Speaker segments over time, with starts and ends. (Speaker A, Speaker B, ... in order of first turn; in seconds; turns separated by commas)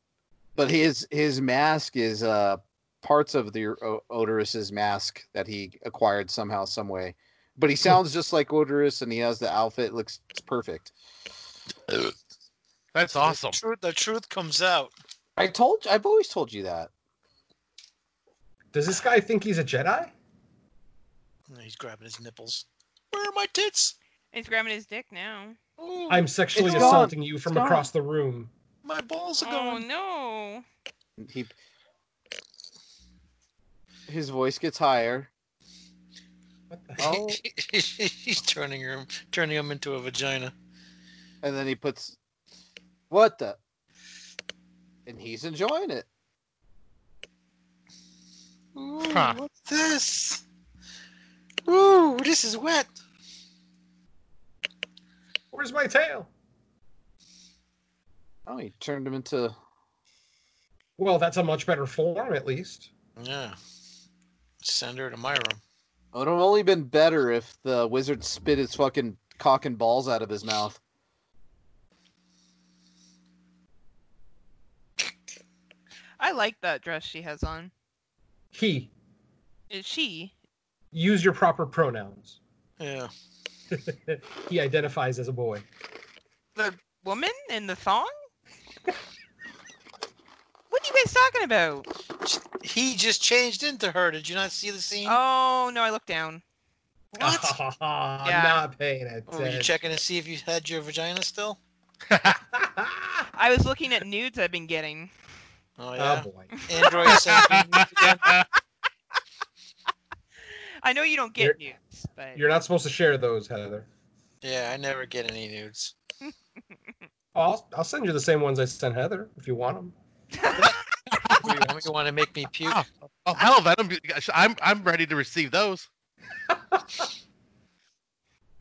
Speaker A: 0.6-10.9, Speaker B: 12.9-13.6, Speaker C: 13.2-14.9, Speaker A: 15.4-16.9, Speaker D: 18.7-20.1, Speaker C: 21.5-23.9, Speaker E: 24.3-25.6, Speaker C: 25.8-27.1, Speaker D: 26.1-28.5, Speaker A: 26.5-27.9, Speaker C: 28.8-29.9, Speaker E: 29.4-30.6, Speaker A: 31.2-31.5, Speaker A: 34.1-35.3, Speaker D: 36.7-37.0, Speaker A: 37.0-37.4, Speaker C: 37.0-40.5, Speaker A: 41.4-42.2, Speaker A: 43.1-43.6, Speaker A: 45.0-46.1, Speaker C: 48.7-50.4, Speaker B: 49.1-49.4, Speaker C: 51.6-52.9, Speaker D: 55.5-56.3, Speaker A: 58.5-59.5, Speaker D: 61.0-62.9, Speaker C: 63.2-63.6, Speaker C: 64.6-65.6, Speaker A: 66.1-70.8, Speaker E: 76.2-77.7, Speaker D: 78.5-78.9, Speaker E: 79.7-80.3, Speaker D: 80.9-82.4, Speaker C: 82.8-83.1, Speaker D: 83.7-85.6, Speaker E: 86.5-88.1, Speaker E: 90.7-91.9, Speaker C: 92.2-95.2, Speaker E: 95.0-96.4, Speaker C: 97.2-97.5, Speaker D: 97.2-99.7, Speaker E: 98.2-98.6, Speaker C: 99.3-101.6, Speaker B: 102.1-102.4, Speaker D: 102.5-103.2, Speaker E: 103.3-105.1, Speaker C: 105.8-108.3, Speaker D: 106.0-106.6, Speaker E: 106.6-107.1, Speaker B: 107.1-108.4, Speaker E: 110.5-112.4, Speaker D: 112.3-113.9, Speaker C: 114.4-115.9, Speaker D: 117.3-119.9, Speaker E: 120.3-120.9, Speaker C: 121.3-122.8, Speaker B: 122.7-125.9, Speaker D: 126.7-127.0